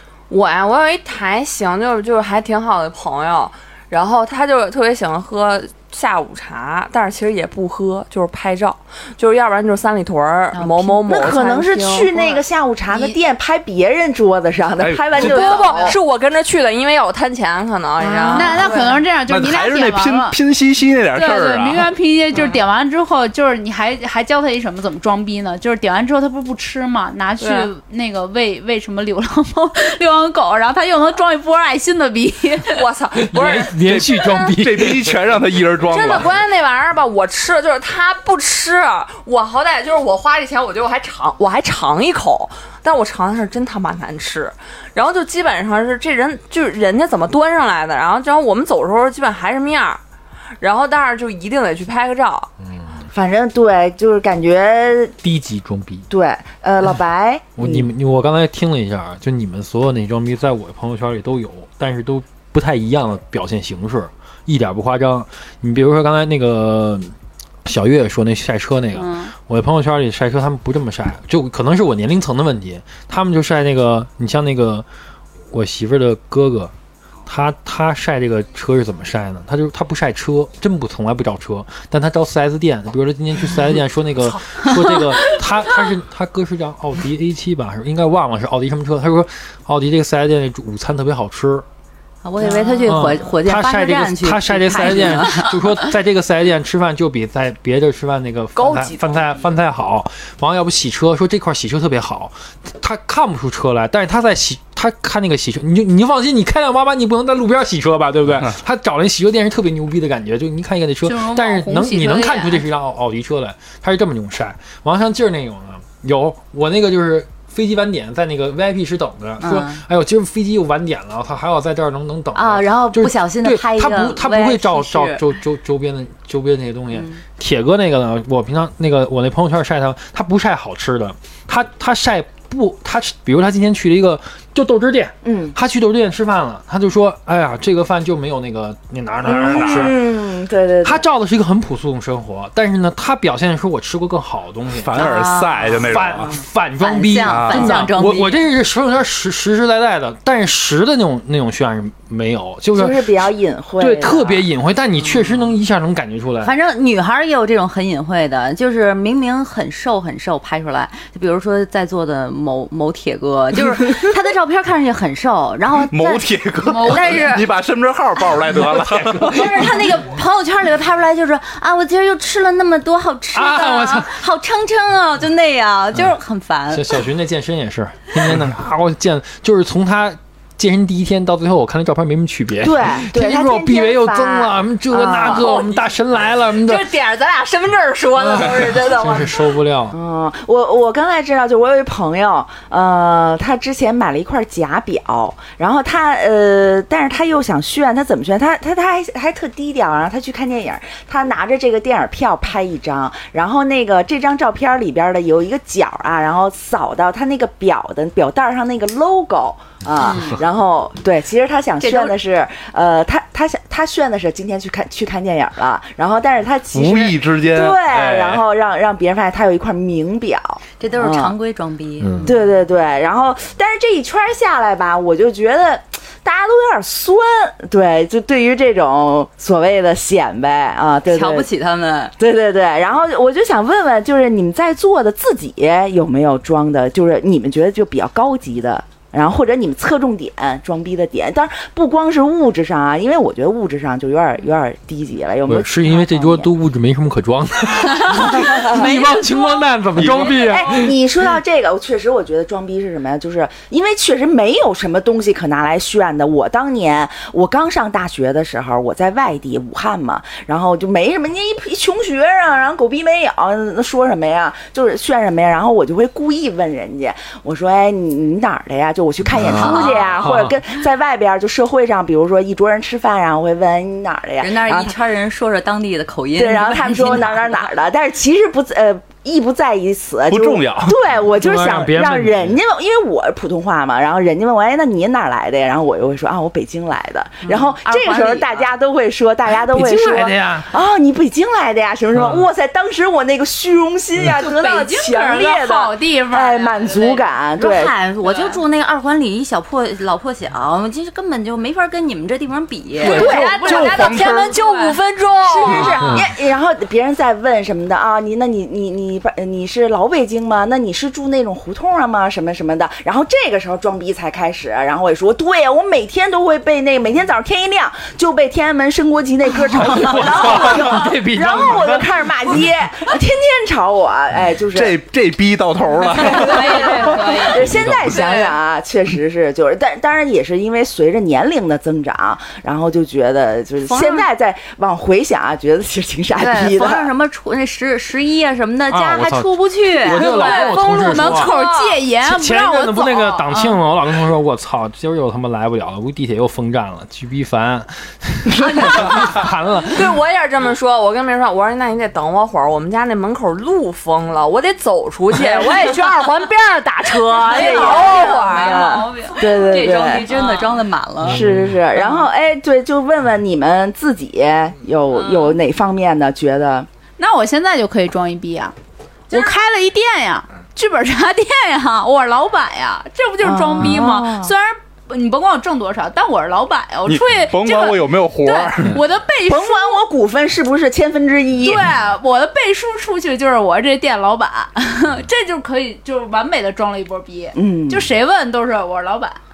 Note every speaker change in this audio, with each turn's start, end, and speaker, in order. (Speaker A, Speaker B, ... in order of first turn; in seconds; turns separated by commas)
Speaker A: 0.3-12.4, Speaker B: 11.0-16.0, Speaker C: 14.8-15.4, Speaker D: 15.2-16.0, Speaker A: 15.2-19.0, Speaker B: 18.0-18.9, Speaker D: 18.3-20.4, Speaker C: 19.3-21.9, Speaker D: 21.1-32.8, Speaker A: 27.4-27.7, Speaker A: 32.7-34.4, Speaker E: 33.2-35.2, Speaker C: 33.8-36.3, Speaker A: 35.8-50.0, Speaker A: 50.6-52.5, Speaker B: 53.1-55.1, Speaker E: 55.2-56.1, Speaker B: 56.1-57.9, Speaker E: 57.6-67.1, Speaker E: 67.6-74.8, Speaker D: 68.9-69.3, Speaker E: 75.5-76.7, Speaker E: 77.2-91.6, Speaker F: 92.2-95.6, Speaker B: 92.4-93.0, Speaker E: 92.8-139.9, Speaker A: 98.5-99.4, Speaker D: 111.0-112.7, Speaker F: 119.4-119.8, Speaker F: 122.3-125.2, Speaker F: 126.9-127.2, Speaker B: 135.2-135.6, Speaker B: 139.2-141.0, Speaker C: 139.2-139.9, Speaker E: 140.8-145.2, Speaker C: 144.8-146.3, Speaker F: 145.0-146.1, Speaker E: 145.8-153.1, Speaker F: 146.8-148.4, Speaker C: 147.3-147.9, Speaker B: 152.7-154.5, Speaker E: 153.8-156.5, Speaker F: 156.4-166.2, Speaker C: 165.9-169.5, Speaker D: 166.6-167.2, Speaker F: 166.8-167.4, Speaker E: 168.5-169.8, Speaker F: 169.3-177.0, Speaker E: 173.3-174.1, Speaker E: 176.7-186.9, Speaker B: 182.6-185.5, Speaker A: 185.1-189.5, Speaker E: 188.2-189.9, Speaker B: 189.9-221.3, Speaker C: 216.7-218.4, Speaker F: 220.8-222.3, Speaker B: 222.2-231.5, Speaker F: 231.1-232.1, Speaker B: 232.2-246.5, Speaker E: 245.5-250.9, Speaker B: 248.1-249.1, Speaker C: 249.9-250.3, Speaker B: 250.2-275.0, Speaker E: 269.4-270.5, Speaker F: 269.4-270.3, Speaker F: 274.4-277.6, Speaker B: 276.4-297.9, Speaker C: 280.3-281.0, Speaker E: 281.3-282.6, Speaker F: 287.4-288.7, Speaker E: 289.6-290.7, Speaker D: 294.3-297.3, Speaker F: 297.6-303.2, Speaker D: 298.2-298.6, Speaker A: 303.0-306.1, Speaker C: 303.0-304.6, Speaker B: 303.1-303.6, Speaker D: 303.1-304.9, Speaker B: 305.4-325.0, Speaker E: 319.7-322.2, Speaker C: 324.7-327.1, Speaker B: 326.2-337.1, Speaker F: 326.2-327.6, Speaker D: 326.7-327.5, Speaker E: 327.6-328.1, Speaker F: 333.8-334.2, Speaker F: 336.4-340.8, Speaker E: 338.9-341.5, Speaker A: 340.2-342.0, Speaker D: 340.3-343.8, Speaker E: 342.2-350.1, Speaker A: 349.9-359.2, Speaker B: 357.5-360.3, Speaker F: 357.5-361.4, Speaker D: 357.7-359.3, Speaker A: 360.3-360.6, Speaker B: 361.2-366.9, Speaker E: 361.3-361.7, Speaker D: 367.2-368.7, Speaker D: 369.3-380.0, Speaker B: 373.4-374.5, Speaker C: 377.1-379.0, Speaker B: 379.5-381.9, Speaker D: 381.6-389.4, Speaker B: 387.5-388.1